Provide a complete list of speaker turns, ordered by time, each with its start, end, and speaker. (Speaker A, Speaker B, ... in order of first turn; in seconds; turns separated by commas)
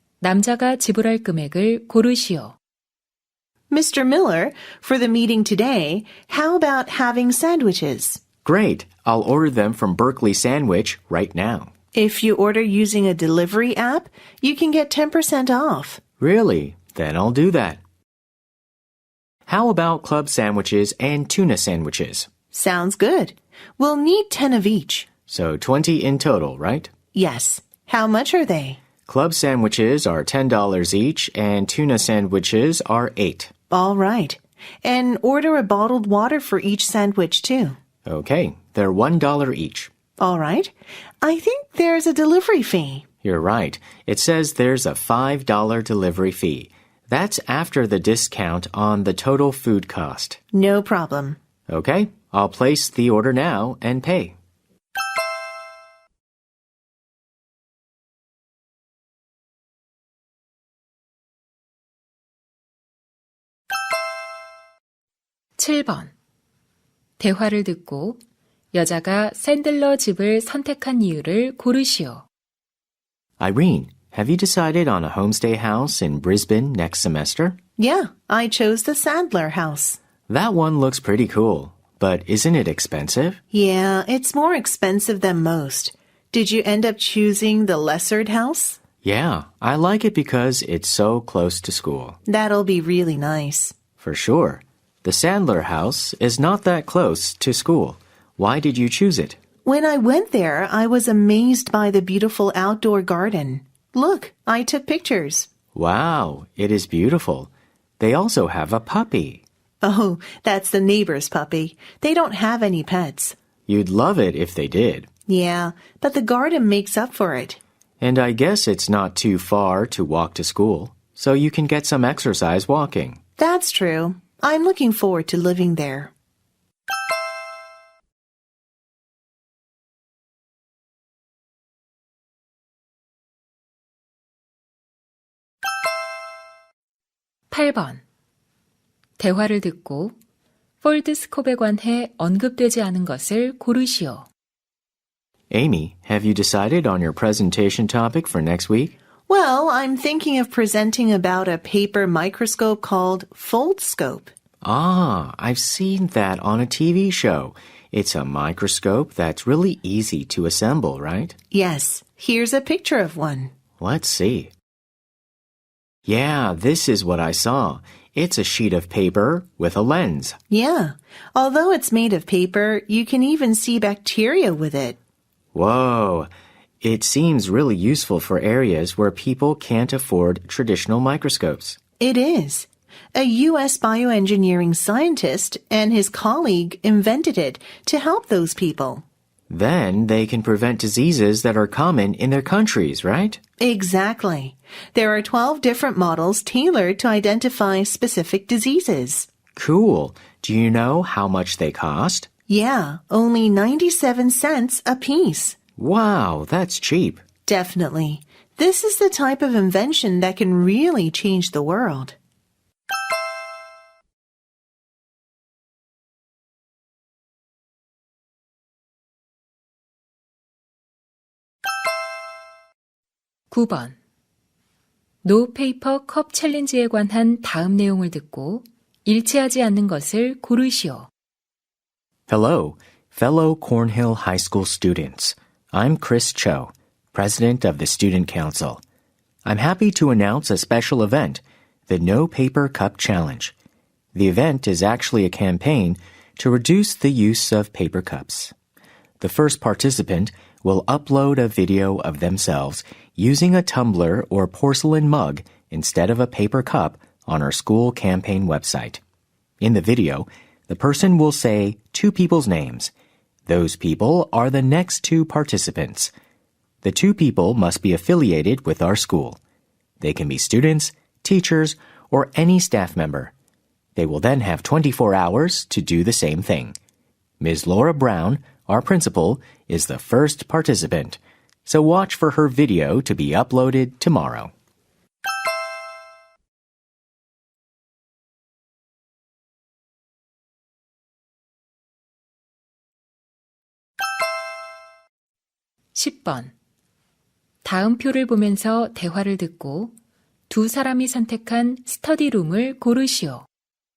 Speaker A: 0.2-2.6, Speaker B: 3.7-8.2, Speaker C: 8.4-11.7, Speaker B: 11.9-16.0, Speaker C: 16.2-17.8, Speaker C: 19.5-22.3, Speaker B: 22.5-25.1, Speaker C: 25.3-26.9, Speaker B: 27.1-28.8, Speaker C: 29.1-33.5, Speaker B: 33.7-37.8, Speaker C: 38.0-39.9, Speaker B: 40.2-43.0, Speaker C: 43.2-50.4, Speaker B: 50.5-51.4, Speaker C: 51.7-54.4, Speaker A: 65.6-66.1, Speaker A: 67.2-68.2, Speaker A: 68.7-72.3, Speaker C: 73.4-77.6, Speaker B: 77.8-80.0, Speaker C: 80.3-83.4, Speaker B: 83.5-88.8, Speaker C: 89.0-92.2, Speaker B: 92.3-93.8, Speaker C: 94.0-99.4, Speaker B: 99.7-105.5, Speaker C: 105.7-107.5, Speaker C: 108.0-109.4, Speaker B: 109.8-113.3, Speaker C: 113.7-115.1, Speaker B: 115.3-117.6, Speaker C: 118.0-123.2, Speaker B: 123.4-126.1, Speaker A: 137.5-138.0, Speaker A: 139.2-140.2, Speaker A: 140.8-144.3, Speaker C: 145.5-148.9, Speaker B: 149.3-154.3, Speaker C: 154.6-161.4, Speaker B: 161.5-163.5, Speaker C: 163.8-164.5, Speaker C: 166.1-170.4, Speaker B: 170.5-175.0, Speaker C: 175.5-176.3, Speaker C: 176.8-181.8, Speaker B: 182.0-189.0, Speaker C: 189.5-193.4, Speaker B: 193.6-199.3, Speaker C: 199.5-202.3, Speaker B: 202.5-205.6, Speaker C: 205.8-207.2, Speaker B: 207.5-212.2, Speaker A: 223.5-224.0, Speaker A: 225.2-231.1, Speaker C: 232.3-238.8, Speaker C: 239.4-243.5, Speaker C: 244.1-248.5, Speaker C: 249.2-259.0, Speaker C: 259.6-262.9, Speaker C: 263.5-266.1, Speaker C: 266.8-269.4, Speaker C: 270.0-273.3, Speaker C: 274.0-276.8, Speaker C: 277.4-284.5, Speaker A: 295.9-296.5, Speaker A: 297.6-299.9, Speaker A: 300.5-303.5